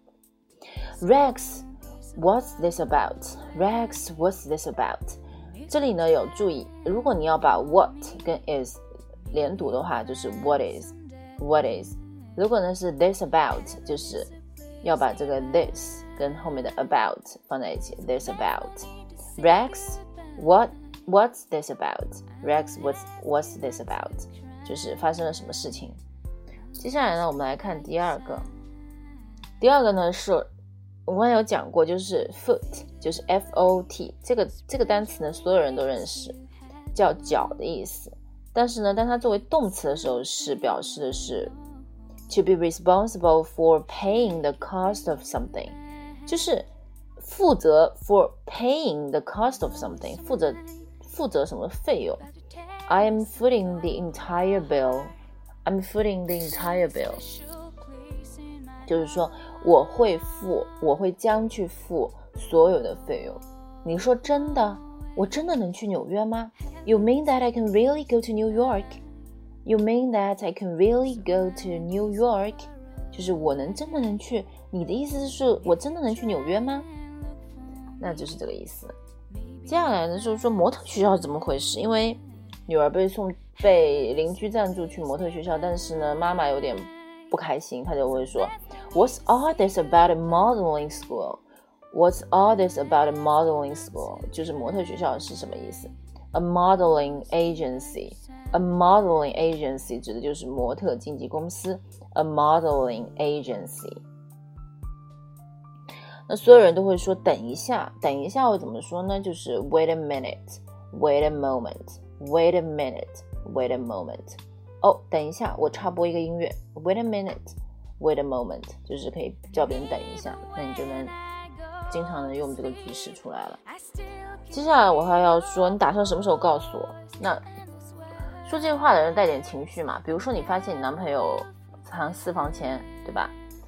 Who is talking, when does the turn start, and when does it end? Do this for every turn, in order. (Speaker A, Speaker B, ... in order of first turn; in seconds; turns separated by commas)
Speaker A: 1.0-26.0, Speaker A: 26.8-28.5, Speaker A: 29.6-30.5, Speaker A: 31.1-36.4, Speaker A: 36.9-41.5, Speaker A: 42.3-52.3, Speaker A: 52.9-55.1, Speaker A: 55.6-57.2, Speaker A: 58.9-69.0, Speaker A: 69.7-76.9, Speaker A: 78.0-78.9, Speaker A: 79.7-104.0, Speaker A: 106.3-121.2, Speaker A: 121.9-123.6, Speaker A: 124.5-127.5, Speaker A: 128.4-133.4